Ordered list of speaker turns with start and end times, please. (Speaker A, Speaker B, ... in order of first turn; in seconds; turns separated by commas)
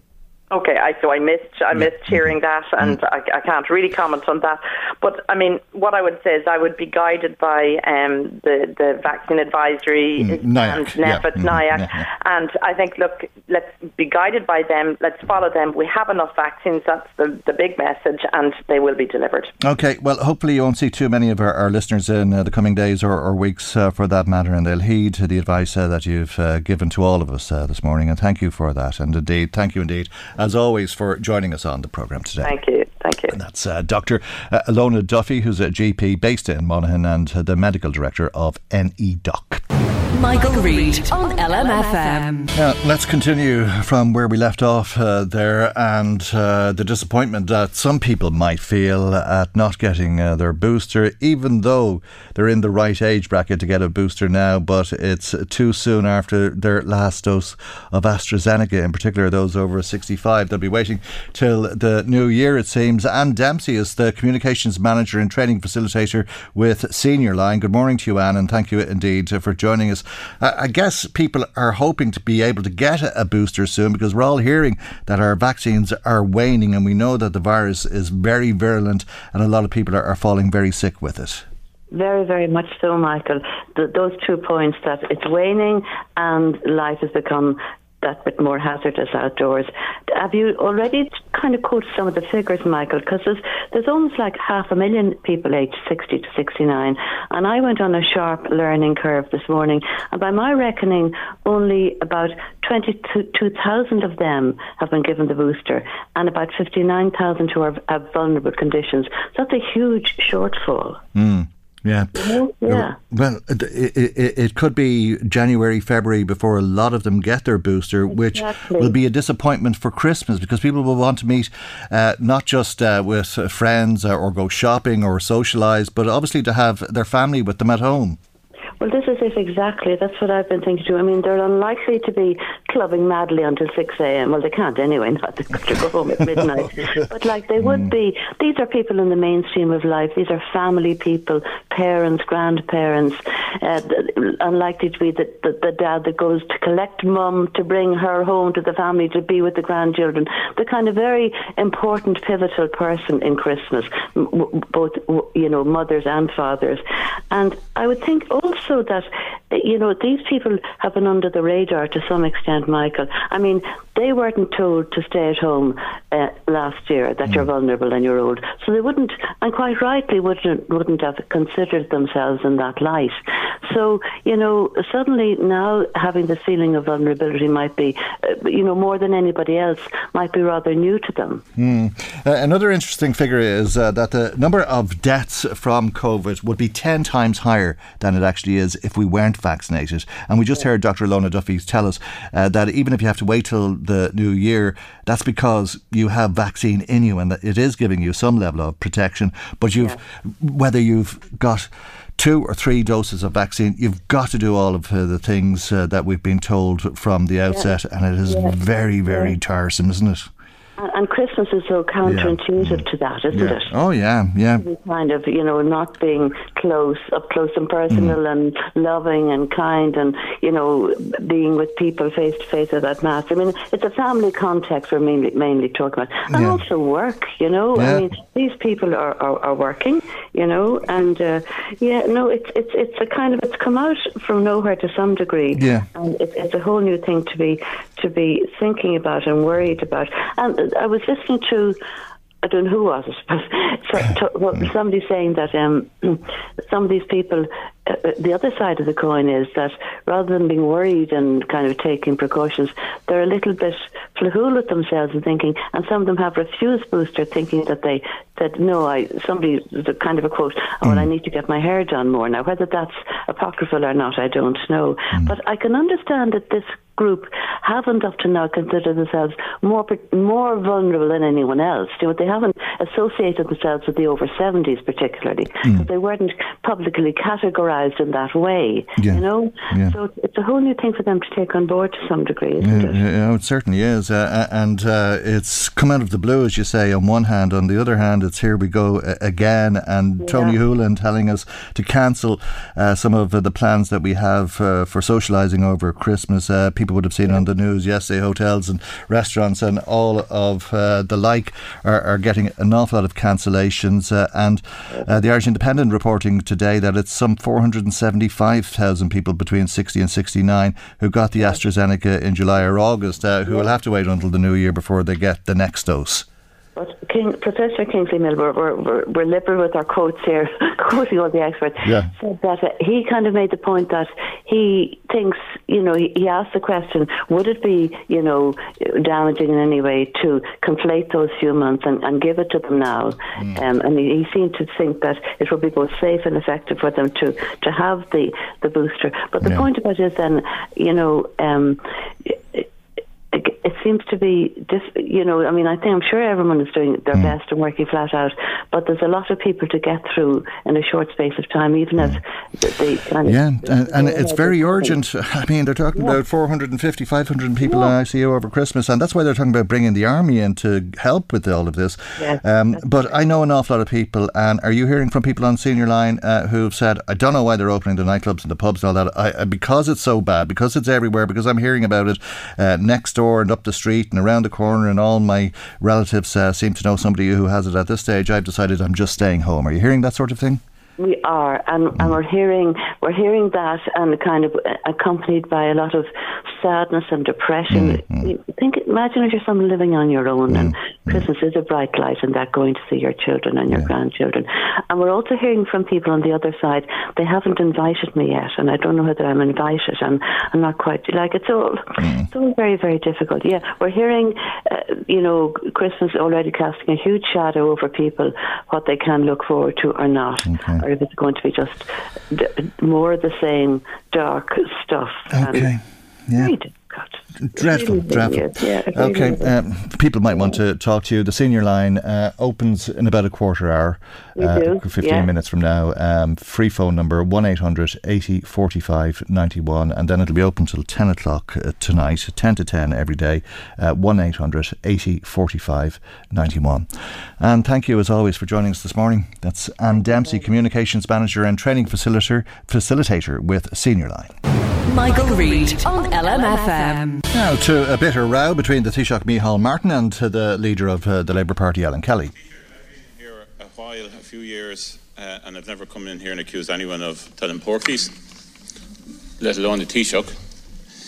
Speaker A: 0.5-19.5, Speaker B: 1.8-2.1, Speaker B: 10.2-12.1, Speaker B: 19.6-32.5, Speaker A: 32.4-33.4, Speaker B: 33.3-39.6, Speaker C: 40.1-42.5, Speaker B: 42.5-81.4, Speaker D: 81.9-111.0, Speaker B: 111.1-128.2, Speaker D: 112.1-113.0, Speaker D: 118.1-118.9, Speaker D: 128.8-181.4, Speaker B: 137.6-137.9, Speaker B: 181.6-210.3, Speaker D: 208.3-209.3, Speaker D: 210.8-213.7, Speaker B: 212.0-214.6, Speaker D: 214.6-241.8, Speaker B: 217.9-218.2, Speaker B: 226.3-226.6, Speaker B: 227.7-228.1, Speaker B: 235.5-235.8, Speaker D: 242.4-283.0, Speaker B: 279.0-279.9, Speaker B: 282.6-316.2, Speaker D: 290.2-290.6, Speaker D: 316.8-342.7, Speaker B: 321.8-322.1, Speaker B: 333.4-333.6, Speaker D: 343.3-355.0, Speaker B: 353.2-380.6, Speaker D: 355.9-356.2, Speaker D: 357.6-357.9, Speaker D: 362.2-363.0, Speaker D: 381.0-415.7, Speaker B: 387.7-388.3, Speaker B: 390.5-391.2, Speaker B: 402.0-402.3, Speaker B: 410.5-410.8, Speaker B: 415.3-416.5, Speaker D: 416.3-419.5, Speaker B: 417.4-436.9, Speaker D: 420.3-420.6, Speaker D: 424.4-425.3, Speaker B: 437.4-444.4, Speaker C: 444.8-447.2, Speaker B: 447.3-452.3, Speaker E: 453.1-458.1, Speaker E: 459.4-460.3